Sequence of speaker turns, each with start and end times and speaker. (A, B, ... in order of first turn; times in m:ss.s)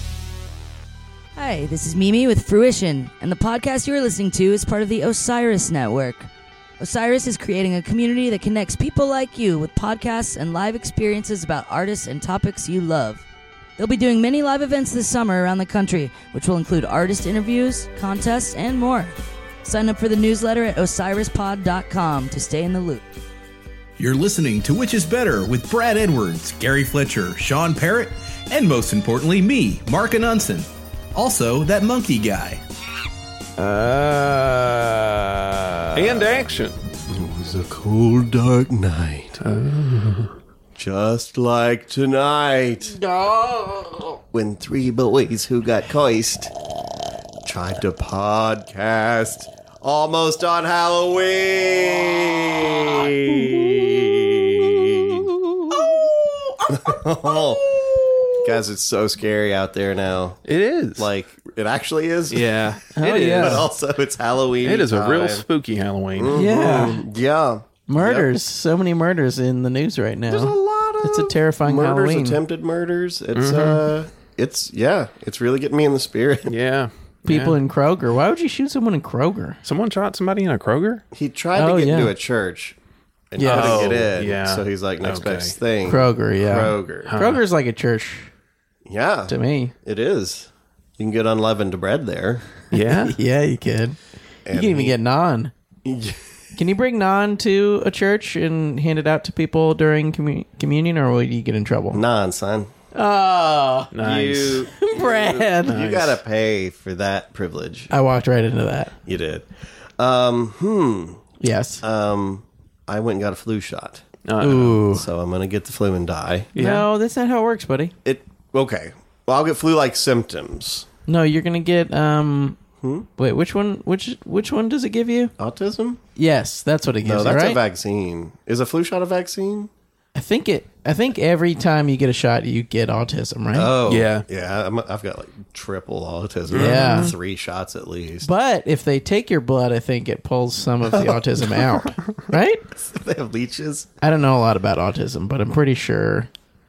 0:01.4-0:06.3 A
0:06.8-0:13.2 A
0:13.8-0:23.0 A
0:24.0-0:32.6 B
0:33.6-0:36.8 C
0:36.0-0:36.3 D
0:37.1-0:39.4 D
0:39.4-0:40.3 C
0:40.7-0:43.0 D
0:42.9-0:44.2 E
0:44.3-0:46.5 D
0:47.4-0:55.3 D
0:55.7-0:57.0 E
0:56.7-0:57.8 D
0:57.7-0:58.4 E
0:58.4-1:00.4 D
1:00.4-1:01.1 C
1:01.0-1:02.7 D
1:02.3-1:03.7 C
1:03.0-1:03.6 E
1:03.3-1:05.4 D
1:04.6-1:06.4 C
1:06.1-1:08.3 D
1:06.3-1:07.0 E
1:07.9-1:12.4 E
1:10.3-1:16.5 D
1:13.3-1:13.8 C
1:16.5-1:17.6 C
1:17.3-1:19.6 E
1:19.6-1:21.0 C
1:21.1-1:22.8 D
1:21.6-1:22.1 E
1:23.3-1:27.1 D
1:23.4-1:23.9 E
1:23.4-1:25.6 C
1:25.9-1:28.3 E
1:27.1-1:27.4 C
1:28.9-1:32.4 D
1:29.3-1:29.7 E
1:32.7-1:33.1 C
1:33.0-1:34.0 E
1:34.4-1:35.0 D
1:34.5-1:35.5 E
1:35.8-1:36.2 D
1:36.6-1:42.0 E
1:41.9-1:42.7 D
1:42.9-1:43.9 E
1:43.9-1:44.7 C
1:44.0-1:47.9 D
1:44.8-1:45.8 E
1:45.7-1:46.2 C
1:47.9-1:48.9 E
1:49.0-1:49.5 D
1:50.0-1:51.3 D
1:51.4-1:51.8 E
1:51.8-1:54.0 D
1:54.2-1:54.8 C
1:54.4-1:55.1 E
1:54.9-1:56.5 D
1:56.6-1:56.9 C
1:56.6-1:57.9 E
1:58.0-2:00.9 D
2:01.1-2:02.6 E
2:02.8-2:03.1 D
2:03.2-2:05.3 E
2:05.4-2:06.0 D
2:06.2-2:07.6 E
2:07.0-2:09.7 D
2:10.2-2:13.7 E
2:13.5-2:18.3 D
2:13.9-2:14.3 C
2:16.5-2:17.1 C
2:16.6-2:17.1 E
2:18.2-2:22.6 E
2:20.9-2:21.9 D
2:22.7-2:23.9 D
2:24.0-2:26.3 E